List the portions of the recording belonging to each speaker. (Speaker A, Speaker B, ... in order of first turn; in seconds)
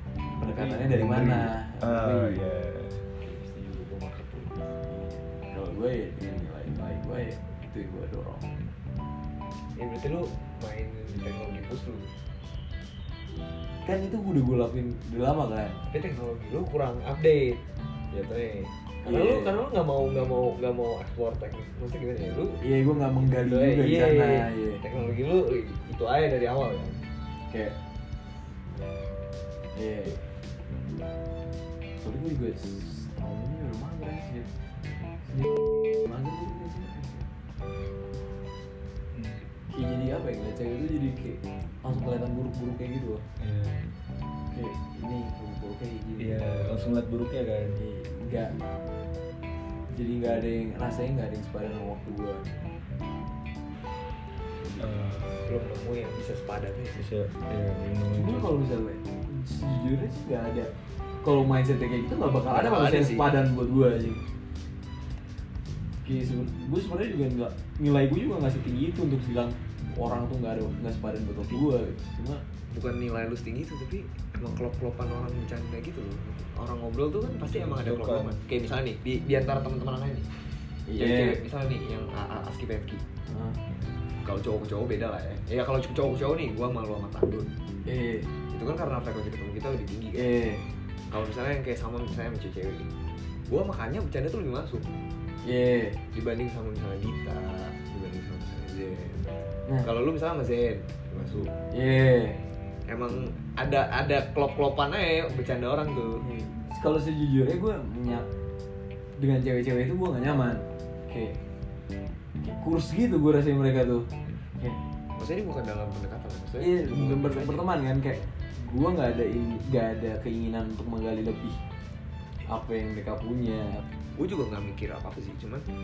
Speaker A: 0.4-2.4, 4.9-8.5, 13.8-15.8, 19.0-19.6, 22.6-24.8, 27.5-27.8, 29.7-30.2, 32.0-34.5, 35.3-37.3, 39.7-43.2, 44.5-46.6, 47.8-48.6, 49.9-52.5, 58.1-64.2, 66.0-72.4, 80.9-81.4, 83.3-83.6, 87.8-88.3, 90.2-90.7, 95.4-96.0, 101.7-102.4, 106.2-108.3, 109.2-111.4, 112.4-114.8, 116.6-121.6, 122.5-123.8
Speaker B: 0.6-3.0, 39.1-39.4, 43.4-43.9, 46.2-47.8, 54.8-55.4, 57.0-58.5, 77.8-78.4
Speaker C: 3.5-4.5, 9.8-12.1, 15.9-22.6, 23.3-27.0, 55.4-57.0, 62.5-63.3, 72.7-80.3, 81.0-83.0, 84.2-87.5, 88.5-90.3, 91.1-92.9, 93.5-94.9, 96.1-101.5, 102.9-106.2, 115.2-117.7, 124.2-125.7